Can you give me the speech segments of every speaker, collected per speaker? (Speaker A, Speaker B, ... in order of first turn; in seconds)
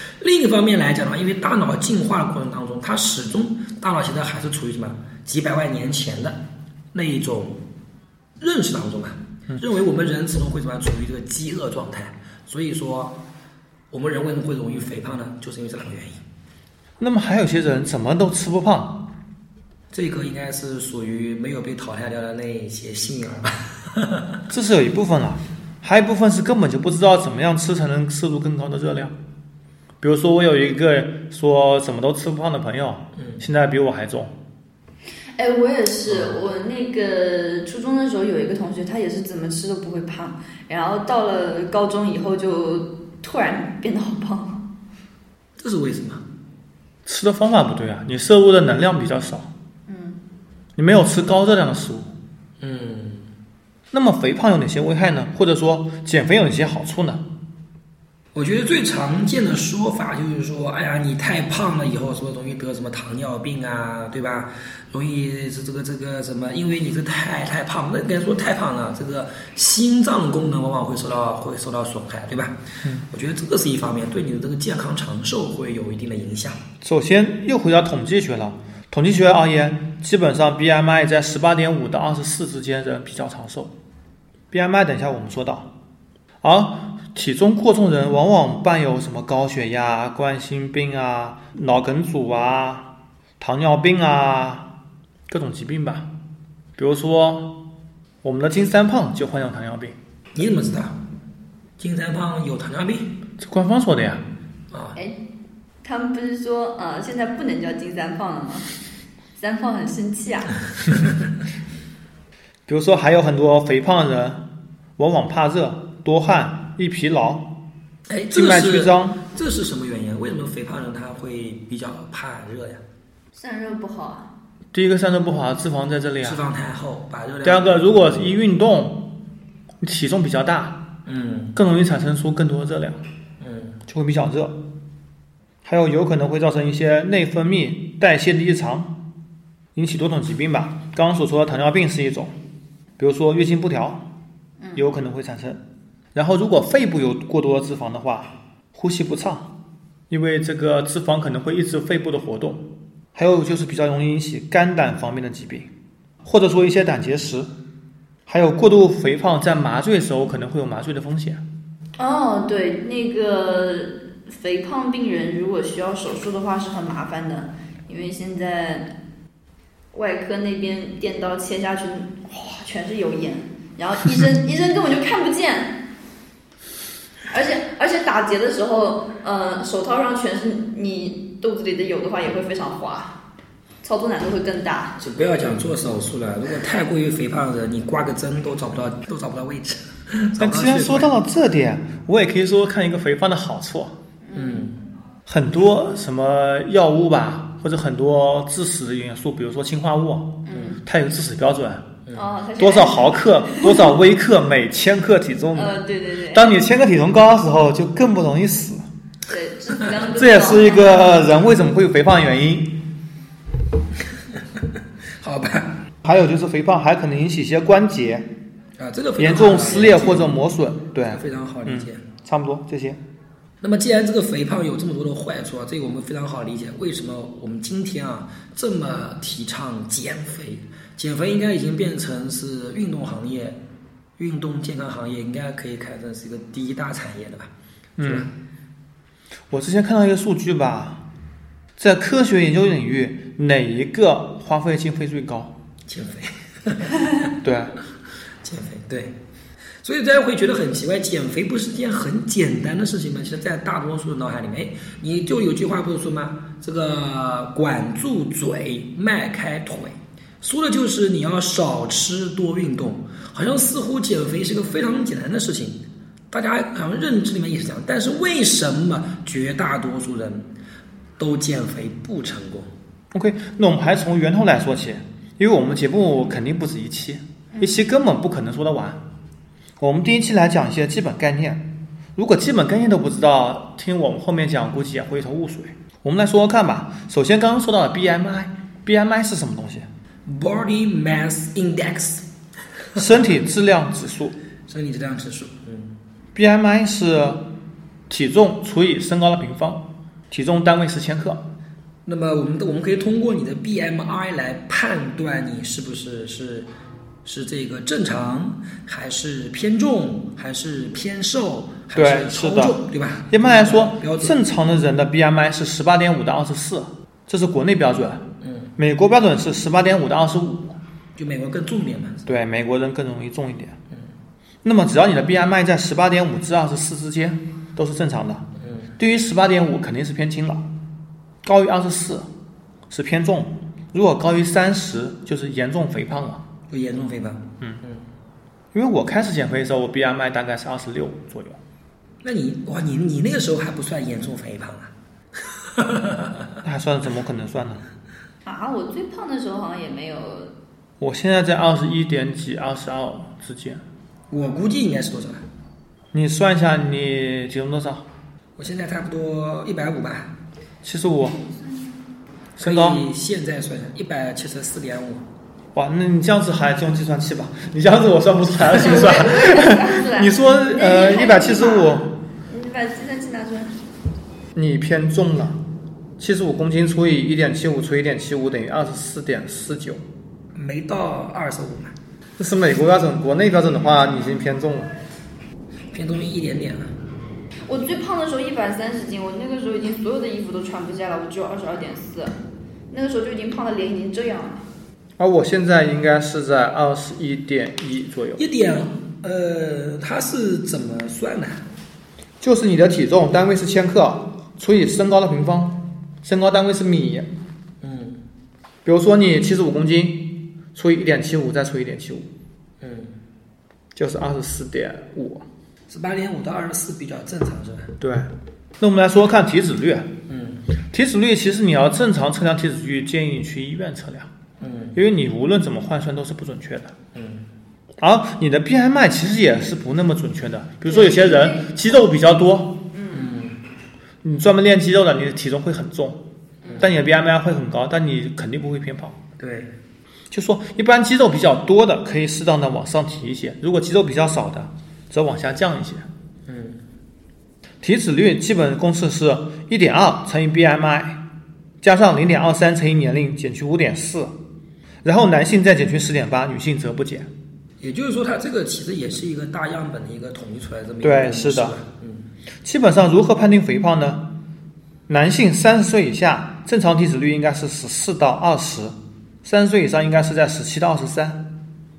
Speaker A: 0.2-7.6, 8.4-13.2, 13.9-16.2, 19.9-24.4, 33.1-33.4, 36.1-36.4, 45.6-46.2, 52.6-53.3, 58.3-76.6, 100.3-101.0, 101.8-103.1, 104.7-105.0, 118.1-122.8, 126.2-128.3, 131.1-131.6, 133.4-133.8, 185.0-191.1, 194.3-194.8, 200.5-200.8, 215.2-215.8, 218.8-220.3, 221.0-222.0, 223.6-233.6, 234.2-238.3, 245.9-247.3, 248.4-249.1, 249.8-270.5, 271.2-272.7, 290.2-292.2, 292.9-293.3, 294.7-296.0, 302.1-306.7, 307.2-314.4, 318.4-318.7, 321.1-322.3, 328.6-328.9, 336.7-338.0, 342.2-344.9, 345.6-346.5, 354.3-355.4, 358.6-360.3, 362.6-365.2, 380.5-381.9, 385.9-386.9, 398.4-401.6, 407.8-408.2, 412.8-413.2, 415.9-417.9, 420.3-420.7, 424.6-425.0, 427.1-427.5, 433.1-433.6, 436.6-436.9, 439.4-439.7, 446.5-446.8, 457.8-462.3
Speaker B: 17.0-19.1, 24.5-29.1, 30.0-34.3, 47.0-49.5, 50.8-52.1, 53.9-57.2, 76.8-83.7, 84.5-85.7, 86.4-94.7, 95.3-96.1, 96.8-97.6, 98.2-100.0, 103.4-104.2, 112.7-114.4, 115.0-117.5, 118.3-119.2, 124.7-126.4, 127.4-129.1, 129.8-130.8, 131.5-133.0, 133.9-134.6, 135.6-138.9, 139.7-142.3, 143.0-144.1, 144.7-145.6, 146.1-149.5, 150.1-155.7, 156.2-157.5, 158.3-161.4, 190.4-194.0, 195.2-201.9, 202.6-208.8, 210.1-212.8, 216.0-218.3, 219.2-223.0, 238.0-238.3, 239.5-241.0, 241.8-245.5, 247.4-247.7, 273.1-279.0, 279.8-289.9, 292.9-294.4, 296.3-297.5, 298.1-301.4, 311.9-318.2, 318.8-320.8, 322.3-323.7, 324.6-328.5, 329.0-330.7, 331.4-332.3, 332.9-336.4, 338.7-341.6, 346.6-347.8, 351.0-353.8, 356.1-358.1, 360.8-361.4, 362.6-363.0, 365.7-372.1, 374.5-375.6, 376.2-380.0, 382.4-384.9, 395.2-398.4, 402.4-407.3, 408.8-412.3, 413.9-415.4, 418.0-420.1, 420.9-424.3, 424.9-426.9, 428.0-432.8, 434.2-436.2, 436.8-439.2, 440.3-446.1, 447.8-451.2, 451.8-454.4, 455.0-457.3, 461.0-461.8, 462.6-464.3, 465.1-471.4
Speaker C: 35.4-44.6, 49.9-50.2, 105.8-108.7, 109.3-110.6, 123.3-124.3, 144.6-144.8, 162.0-168.9, 169.9-175.8, 177.3-183.2, 183.8-185.0, 194.2-194.7, 200.4-200.8, 202.1-203.9, 205.5-206.5, 209.3-211.1, 277.5-277.8, 348.4-350.5, 368.7-373.7, 387.7-392.3, 392.9-394.6, 430.9-431.7, 432.9-433.3